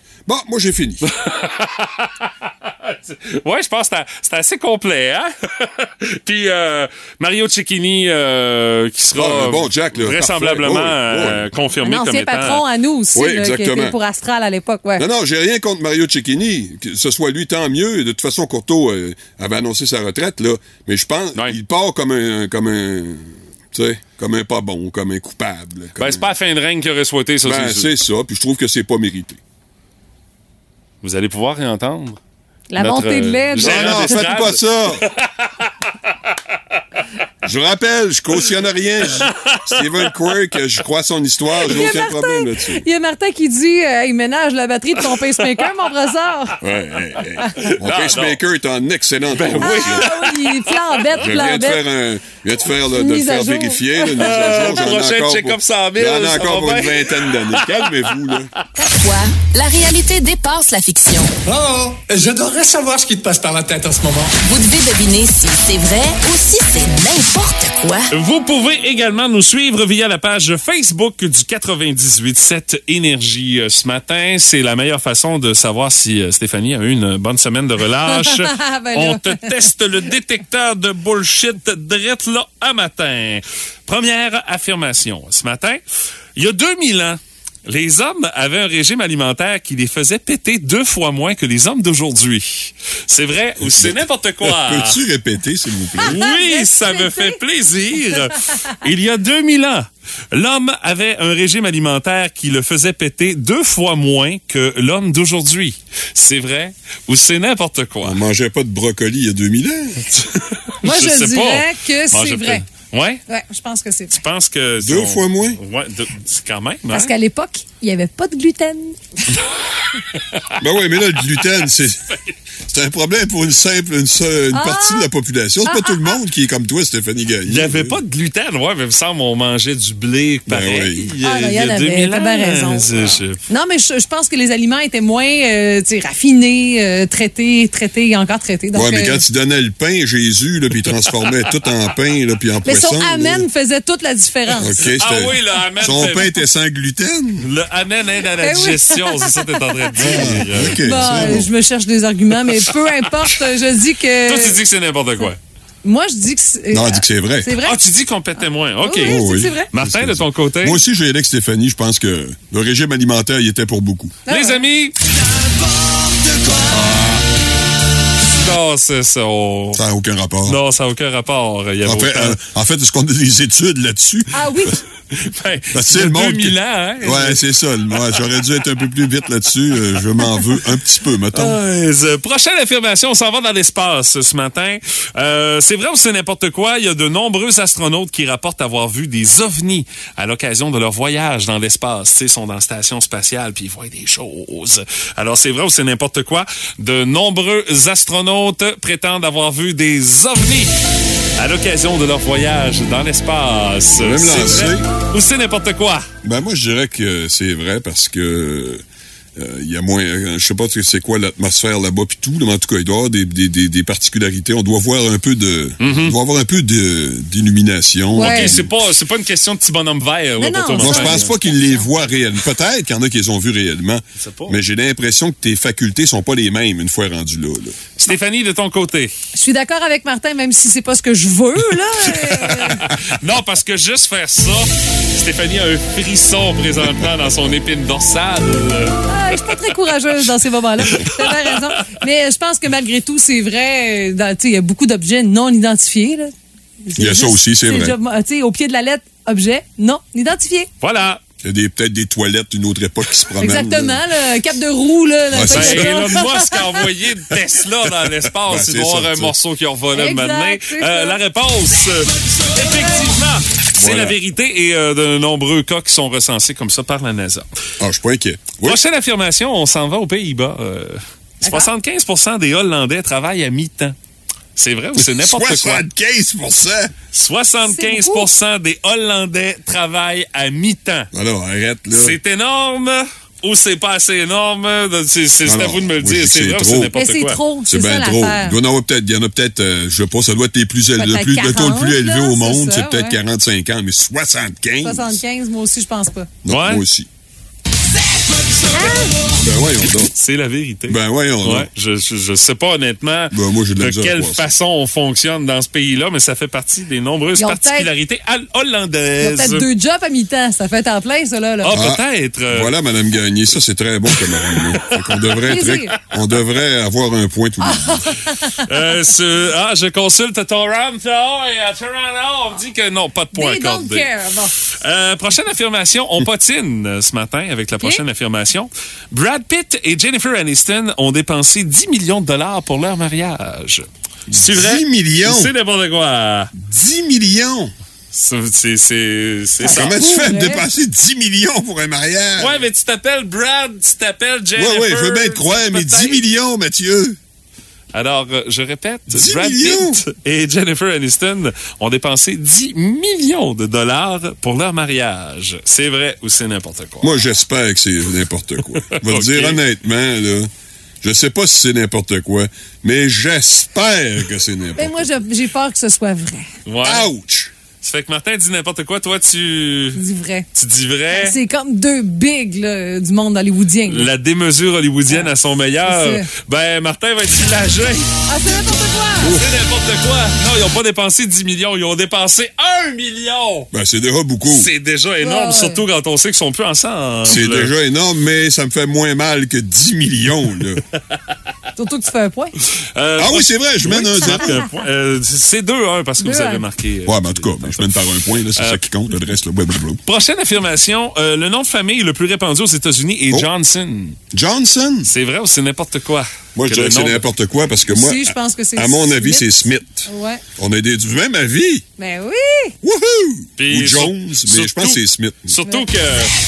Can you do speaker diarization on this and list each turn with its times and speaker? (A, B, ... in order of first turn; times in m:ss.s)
0:00.2-0:01.0 A
0:01.0-0:12.6 B
0:09.1-0:11.5 A
0:11.8-0:15.0 C
0:13.1-0:14.0 A
0:15.0-0:26.3 A
0:26.0-0:27.9 B
0:27.4-0:29.4 A
0:31.0-0:32.2 B
0:32.7-0:34.3 C
0:32.8-0:35.7 B
0:33.6-0:35.0 A
0:37.4-0:42.8 A
0:39.2-0:39.8 B
0:41.7-0:46.6 C
0:46.6-0:50.1 A
0:47.6-0:48.4 B
0:49.3-0:50.8 B
0:49.6-0:51.8 C
0:51.2-0:58.5 A
0:52.9-0:54.7 C
0:54.2-0:57.9 B
0:58.8-1:01.4 D
1:01.4-1:04.3 E
1:04.4-1:08.1 D
1:08.1-1:25.8 B
1:18.1-1:19.7 C
1:26.4-1:35.0 B
1:33.6-1:36.2 A
1:36.0-1:48.2 B
1:36.0-1:37.4 C
1:48.0-1:50.0 A
1:50.1-1:53.2 B
1:50.8-1:52.6 C
1:53.3-1:54.2 C
1:54.1-1:57.1 B
1:54.8-1:55.6 A
1:56.9-1:59.0 C
2:00.1-2:00.5 B
2:00.6-2:02.0 A
2:02.7-2:08.0 A
2:04.5-2:05.1 C
2:05.6-2:06.2 C
2:07.5-2:13.4 B
2:10.5-2:11.1 A
2:11.2-2:19.2 C
2:18.7-2:23.4 A
2:22.6-2:24.9 C
2:24.6-2:27.5 A
2:25.0-2:26.3 B
2:27.4-2:31.4 B
2:28.4-2:34.6 C
2:30.0-2:31.5 A
2:32.5-2:33.3 B
2:34.2-2:35.4 B
2:35.8-2:37.8 C
2:36.7-2:37.5 A
2:37.6-2:40.8 B
2:38.8-2:39.7 C
2:39.0-2:44.2 A
2:44.3-2:44.6 C
2:44.3-2:45.0 B
2:46.7-2:47.3 A
2:48.2-2:49.8 B
2:49.7-2:50.6 A
2:50.4-2:52.4 B
2:51.8-2:54.8 A
2:54.3-2:54.8 C
2:55.1-2:57.4 B
2:55.7-3:01.6 A
3:01.3-3:20.7 B
3:21.4-3:26.1 B
3:23.9-3:24.9 A
3:26.2-3:28.8 A
3:29.4-3:38.7 A
3:35.8-3:36.2 B
3:38.1-3:38.6 C
3:38.1-3:41.3 B
3:40.4-3:41.5 C
3:40.8-3:47.8 A
3:44.2-3:44.6 B
3:48.0-3:49.1 B
3:49.3-3:52.9 C
3:52.1-3:59.0 B
3:59.1-4:06.3 C
4:00.9-4:01.8 B
4:06.8-4:10.7 C
4:07.0-4:08.0 A
4:10.8-4:11.2 B
4:11.4-4:14.0 A
4:13.4-4:16.7 C
4:15.3-4:16.0 A
4:15.5-4:27.5 B
4:18.4-4:19.3 A
4:19.9-4:21.2 C
4:23.8-4:24.2 A
4:27.8-4:28.8 A
4:28.6-4:34.0 B
4:31.4-4:31.7 C
4:34.6-4:35.8 B
4:35.0-4:36.9 A
4:37.1-4:41.1 B
4:37.7-4:38.3 C
4:41.1-4:42.2 A
4:41.9-4:47.4 B
4:45.4-4:46.9 A
4:46.9-4:48.6 C
4:47.7-4:55.2 A
4:51.0-4:53.2 C
4:54.8-4:56.3 C
4:56.4-4:57.1 A
4:56.5-4:56.8 B
4:58.7-4:59.2 C
4:59.4-5:00.1 A
5:00.1-5:09.6 B
5:00.9-5:01.7 A
5:03.3-5:04.5 A
5:07.4-5:07.9 C
5:09.2-5:11.8 C
5:11.6-5:12.7 B
5:11.7-5:18.1 A
5:14.2-5:15.4 B
5:15.4-5:15.9 C
5:17.6-5:18.6 C
5:18.6-5:24.1 B
5:23.3-5:24.5 C
5:24.8-5:36.5 B
5:34.3-5:35.5 A
5:36.6-5:37.7 A
5:38.1-5:40.0 B
5:39.6-5:42.6 A
5:39.7-5:40.6 C
5:42.4-5:46.2 B
5:44.6-5:47.2 A
5:47.9-5:57.1 B
5:49.1-5:50.0 A
5:57.0-6:00.5 A
5:58.9-5:59.6 B
6:01.0-6:05.0 A
6:04.8-6:06.5 C
6:06.6-6:07.1 B
6:06.8-6:07.5 A
6:07.8-6:10.0 B
6:10.0-6:10.5 C
6:10.5-6:11.4 B
6:11.1-6:14.1 C
6:13.9-6:18.1 B
6:15.8-6:16.2 C
6:18.3-6:19.4 C
6:19.2-6:23.7 B
6:23.7-6:24.7 A
6:24.4-6:27.7 B
6:25.2-6:25.8 C
6:27.2-6:30.8 A
6:31.8-6:32.5 C
6:32.9-6:38.0 B
6:33.2-6:34.6 A
6:36.2-6:36.6 C
6:37.0-6:40.0 A
6:38.6-6:38.8 B
6:40.0-6:44.2 B
6:44.3-6:45.1 A
6:45.0-6:47.3 B
6:46.5-6:51.8 A
6:47.9-6:49.5 C
6:50.0-6:50.4 C
6:52.0-6:52.7 C
6:52.8-6:55.5 A
6:53.6-6:56.3 B